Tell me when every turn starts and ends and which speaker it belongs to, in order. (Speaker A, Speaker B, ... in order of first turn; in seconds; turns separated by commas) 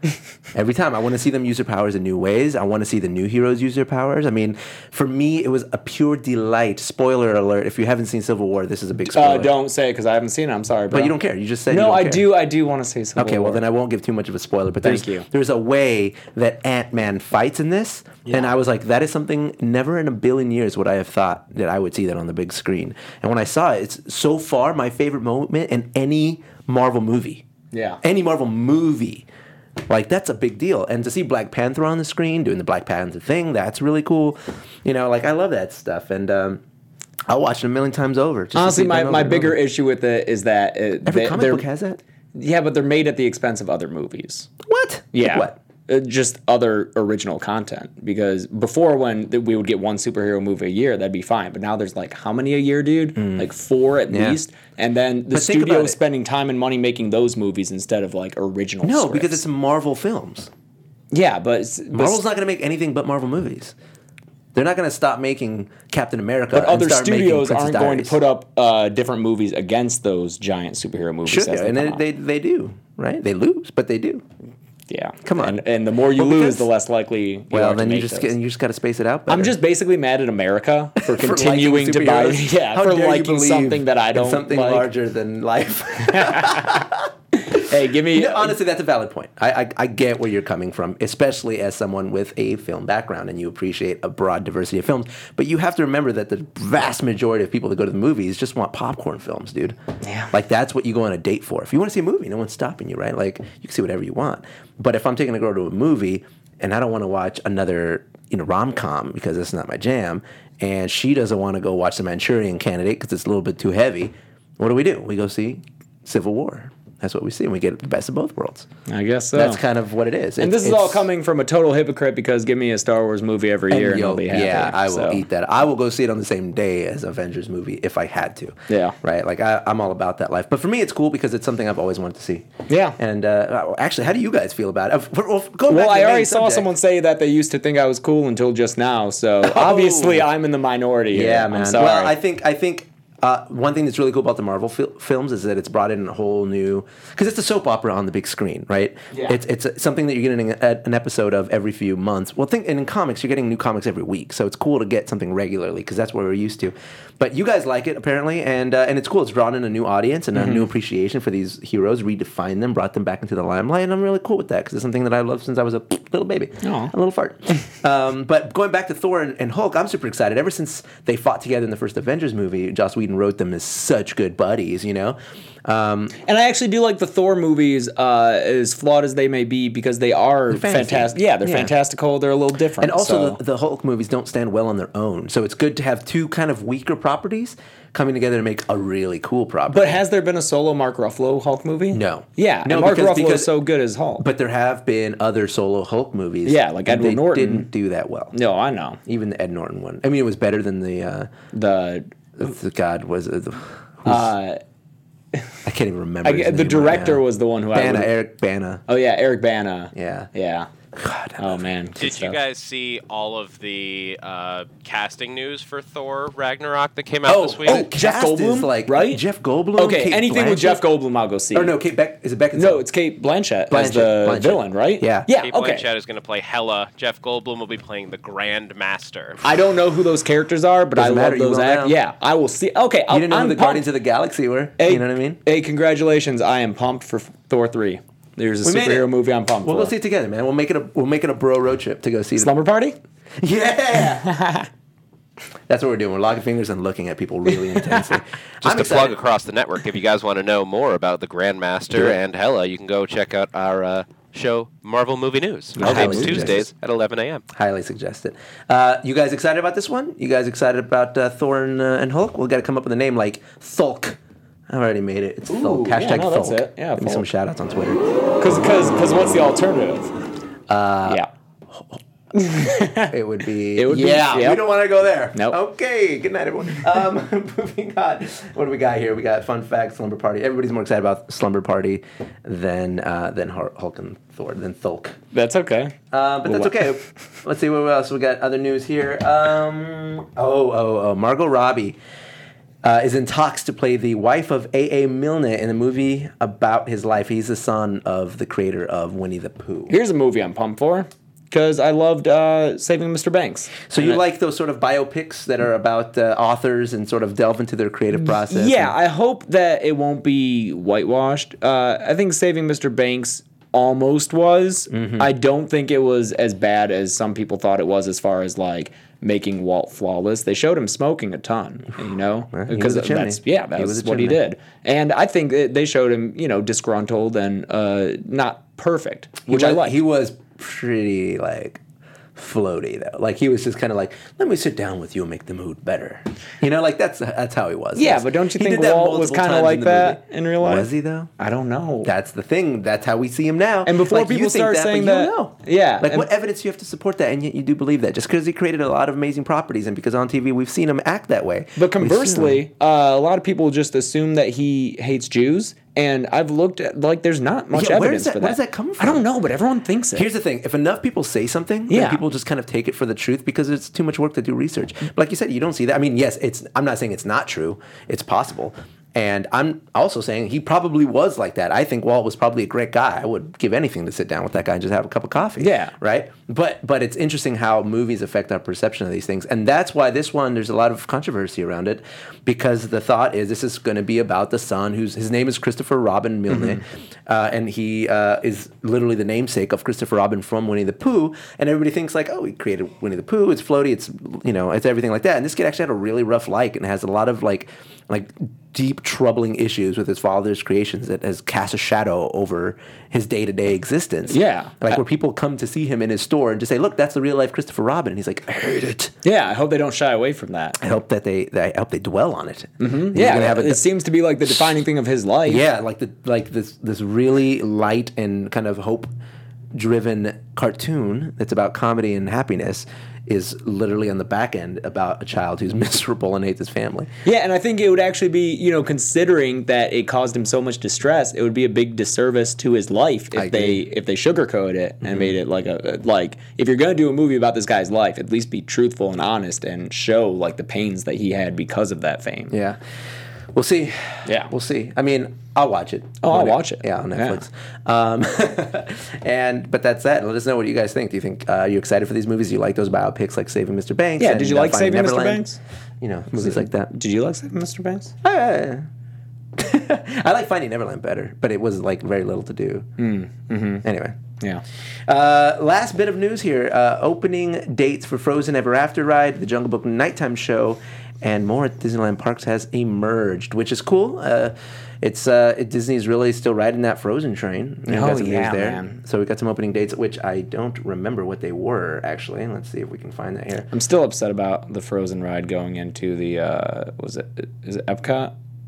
Speaker A: 0.5-9.5, Speaker B: 9.1-11.1, Speaker A: 10.9-12.3, Speaker B: 11.7-13.6, Speaker A: 13.2-27.4, Speaker B: 14.8-15.2, Speaker B: 18.2-18.5, Speaker B: 27.7-28.0, Speaker A: 28.0-29.3, Speaker A: 29.9-36.6, Speaker A: 37.3-39.6, Speaker B: 38.5-41.7, Speaker A: 41.0-42.0, Speaker B: 42.3-44.5, Speaker A: 44.6-45.6, Speaker B: 45.1-59.4, Speaker A: 53.2-53.5, Speaker A: 54.1-54.4, Speaker A: 55.3-56.0, Speaker A: 58.8-60.5, Speaker B: 61.1-62.2, Speaker A: 61.9-63.7, Speaker A: 64.5-68.2, Speaker B: 66.5-72.0, Speaker A: 71.2-74.2, Speaker B: 74.9-78.3, Speaker A: 75.2-76.7, Speaker A: 77.5-79.5, Speaker B: 79.3-84.9, Speaker A: 81.0-99.8, Speaker B: 86.0-86.8, Speaker B: 87.5-88.6, Speaker B: 100.0-100.3, Speaker A: 100.3-118.7, Speaker B: 118.9-119.6, Speaker A: 119.3-121.0, Speaker B: 120.4-125.2, Speaker A: 123.7-136.7, Speaker B: 128.7-128.9, Speaker B: 132.7-133.0, Speaker B: 135.7-142.2, Speaker A: 139.4-140.3, Speaker A: 141.1-176.2, Speaker B: 160.3-160.7, Speaker B: 166.6-166.9, Speaker B: 176.2-183.4, Speaker A: 180.5-181.7, Speaker A: 182.8-190.0, Speaker B: 189.7-194.2, Speaker A: 191.9-193.6, Speaker A: 194.2-198.3, Speaker B: 196.4-197.7, Speaker B: 198.3-199.0, Speaker A: 199.1-201.3, Speaker B: 201.5-202.1, Speaker A: 202.4-204.3, Speaker B: 204.1-204.6, Speaker A: 205.6-207.2, Speaker B: 206.2-208.1, Speaker A: 207.7-208.8, Speaker B: 208.9-210.7, Speaker A: 209.9-210.3, Speaker A: 210.9-211.7, Speaker B: 211.4-212.4, Speaker C: 212.0-217.8, Speaker A: 217.2-220.8, Speaker B: 217.4-219.2, Speaker B: 219.8-221.8, Speaker A: 221.5-222.8, Speaker B: 222.6-225.9, Speaker A: 223.7-225.3, Speaker C: 225.4-229.4, Speaker B: 229.4-233.9, Speaker A: 230.9-232.0, Speaker A: 233.1-235.4, Speaker B: 234.8-239.9, Speaker A: 238.6-239.1, Speaker A: 239.6-242.5, Speaker B: 242.4-243.0, Speaker A: 243.4-244.3, Speaker B: 243.9-244.7, Speaker A: 245.7-249.2, Speaker B: 247.5-248.2, Speaker C: 248.6-257.4, Speaker B: 255.8-256.6, Speaker A: 255.8-256.7, Speaker A: 257.5-264.2, Speaker A: 264.7-268.0, Speaker B: 265.5-267.2, Speaker B: 268.4-270.1, Speaker A: 270.7-271.2, Speaker A: 271.7-285.2, Speaker B: 272.3-273.1, Speaker B: 273.7-274.7, Speaker B: 285.3-287.0, Speaker A: 286.1-292.0, Speaker A: 292.8-299.9, Speaker B: 299.9-304.2, Speaker A: 303.9-308.9, Speaker B: 308.1-330.0, Speaker A: 314.9-315.3, Speaker A: 322.5-324.4, Speaker A: 329.4-331.8, Speaker A: 332.4-341.3, Speaker B: 337.9-342.1, Speaker A: 342.0-352.6, Speaker B: 343.9-346.3, Speaker B: 351.8-360.3, Speaker A: 357.7-359.2, Speaker A: 360.1-409.1, Speaker B: 361.9-362.2, Speaker B: 375.6-375.9, Speaker B: 386.5-386.8, Speaker B: 404.3-405.0, Speaker B: 409.2-410.8, Speaker A: 410.8-413.8, Speaker B: 412.8-415.6, Speaker A: 415.4-419.1, Speaker A: 419.7-427.1, Speaker B: 427.2-442.5, Speaker A: 433.3-433.8, Speaker A: 435.0-435.3, Speaker A: 442.5-442.8, Speaker A: 443.5-455.4, Speaker B: 444.2-444.5, Speaker B: 446.2-447.4, Speaker B: 454.2-455.6, Speaker A: 456.0-456.9, Speaker B: 456.3-458.1, Speaker A: 458.2-458.9, Speaker A: 459.6-462.9, Speaker B: 463.0-463.8, Speaker A: 463.8-464.2, Speaker A: 465.1-483.7, Speaker B: 477.9-479.0, Speaker B: 483.7-488.3